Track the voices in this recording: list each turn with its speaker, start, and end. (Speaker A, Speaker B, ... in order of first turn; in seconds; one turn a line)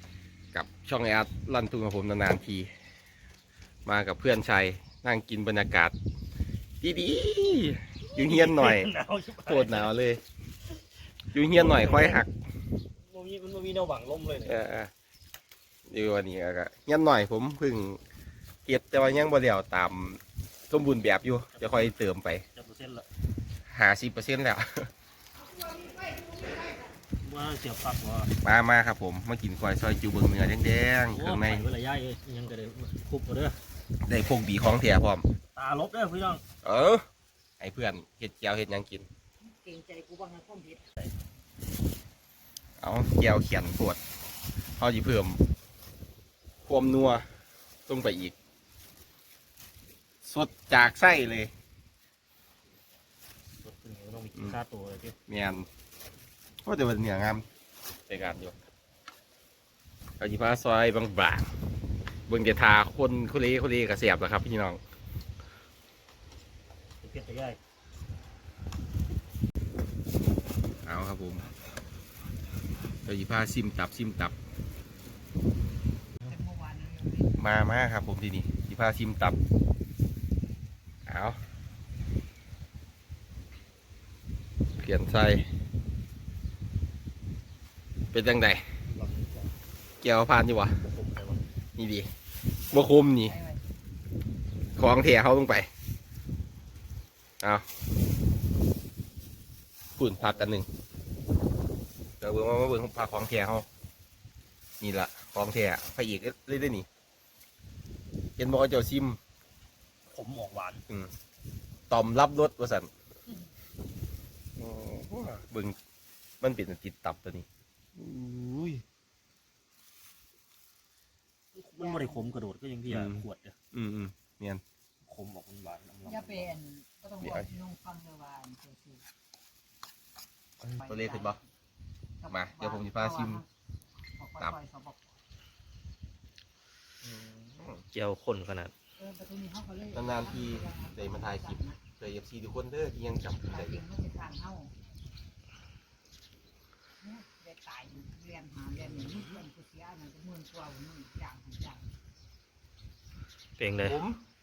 Speaker A: 0.5-2.7
Speaker A: 3.9-6.0
Speaker A: 6.8-8.9
Speaker B: 8.1-9.9
Speaker A: 9.4-10.2
Speaker A: 11.3-12.3
Speaker B: 11.4-12.2
Speaker B: 13.0-14.6
Speaker A: 14.4-14.9
Speaker A: 15.9-18.0
Speaker A: 18.7-22.4
Speaker B: 21.4-21.9
Speaker B: 22.6-23.1
Speaker A: 23.7-24.9
Speaker B: 27.2-28.3
Speaker A: 28.4-31.7
Speaker B: 31.1-33.6
Speaker A: 34.1-35.3
Speaker B: 35.6-36.4
Speaker A: 36.6-37.0
Speaker A: 37.6-39.1
Speaker C: 39.4-40.9
Speaker A: 42.8-44.0
Speaker A: 44.8-45.4
Speaker A: 46.6-47.2
Speaker A: 47.9-48.3
Speaker A: 50.2-51.5
Speaker B: 53.6-55.2
Speaker A: 55.3-55.7
Speaker A: 56.6-57.5
Speaker A: 58.1-58.5
Speaker A: 60.2-61.5
Speaker A: 62.3-64.8
Speaker B: 67.0-67.6
Speaker A: 70.8-71.5
Speaker A: 73.1-74.3
Speaker C: 76.3-77.4
Speaker A: 77.4-79.4
Speaker A: 81.1-81.4
Speaker A: 84.8-85.5
Speaker A: 88.1-88.6
Speaker B: 88.9-89.5
Speaker A: 90.0-90.8
Speaker B: 90.8-91.4
Speaker A: 91.8-92.1
Speaker A: 92.7-93.4
Speaker C: 93.3-93.6
Speaker A: 94.8-95.7
Speaker A: 100.0-100.7
Speaker A: 102.2-103.7
Speaker A: 104.8-106.9
Speaker A: 108.4-109.2
Speaker B: 110.1-110.8
Speaker A: 111.9-112.9
Speaker A: 114.6-115.8
Speaker A: 116.4-117.5
Speaker A: 118.0-118.8
Speaker B: 121.5-123.5
Speaker C: 121.8-122.3
Speaker A: 122.9-124.6
Speaker B: 125.0-126.6
Speaker C: 126.1-129.0
Speaker A: 127.2-127.5
Speaker A: 130.6-131.4
Speaker C: 130.8-131.5
Speaker C: 132.2-133.4
Speaker A: 132.3-133.4
Speaker C: 134.2-135.1
Speaker A: 137.0-137.8
Speaker B: 137.9-138.7
Speaker C: 139.0-141.8
Speaker A: 139.9-143.8
Speaker C: 143.5-144.7
Speaker C: 147.0-151.9
Speaker B: 149.0-149.4
Speaker B: 153.6-154.0
Speaker A: 153.8-154.2